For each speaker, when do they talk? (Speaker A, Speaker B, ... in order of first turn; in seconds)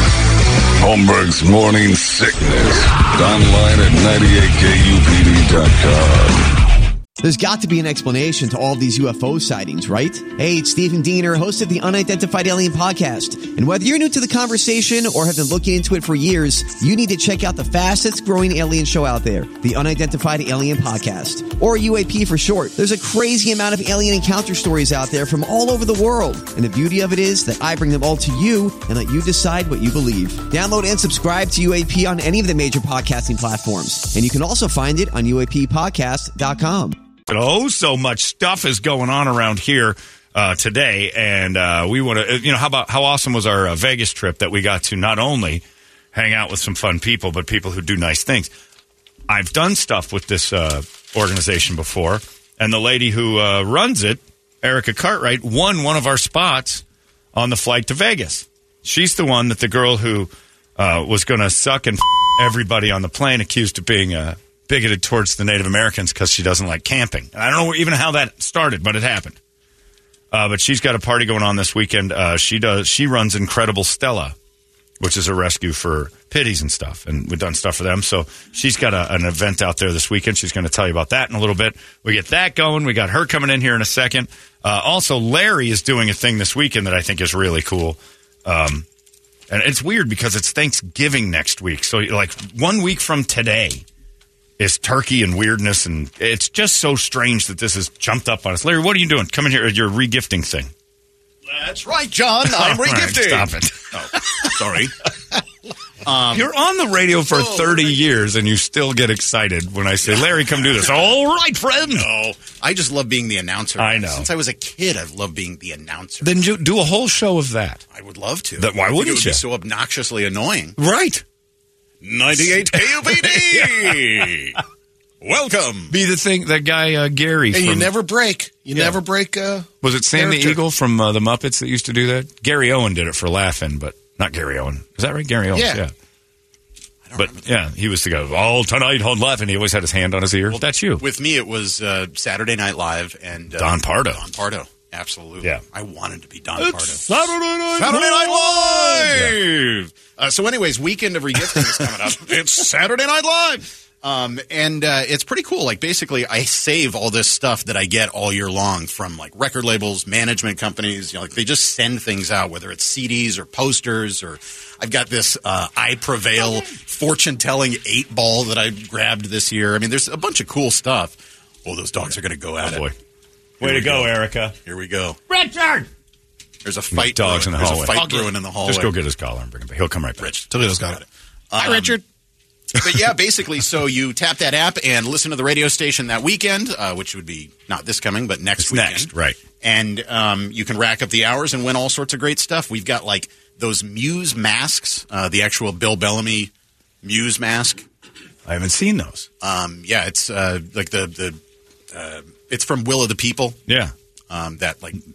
Speaker A: 0.8-6.5
Speaker B: 7.2-37.0
Speaker C: 37.3-45.6, 46.1-48.5, 49.3-56.8, 57.3-69.4, 70.3-74.3, 75.0-88.8, 89.5-93.8, 94.6-100.7, 102.5-104.5, 106.3-112.1, 113.8-114.3, 116.2-117.8, 118.6-119.4, 120.8-121.2, 122.4-124.0, 125.9-127.9, 128.7-129.0, 129.8-135.9, 137.2-141.0, 143.6-144.3, 146.6-149.3, 172.6-172.9, 173.6-174.6, 175.3-175.8, 176.9-180.4, 188.6-189.4, 198.5-199.3, 203.7-203.9
Speaker D: 101.5-105.0, 106.0-106.5, 107.3-107.9, 111.8-116.3, 117.9-120.8, 122.0-124.6, 125.2-125.9, 137.1-137.4, 140.5-147.1, 147.7-172.9, 173.6-174.1, 174.7-175.2, 176.6-178.9, 180.2-182.0, 182.8-196.5, 197.0-197.8, 199.4-201.4, 201.9-203.6, 204.3-205.0
Speaker E: 127.5-130.6, 135.5-135.8, 178.0-178.3, 180.5-181.0, 181.6-182.0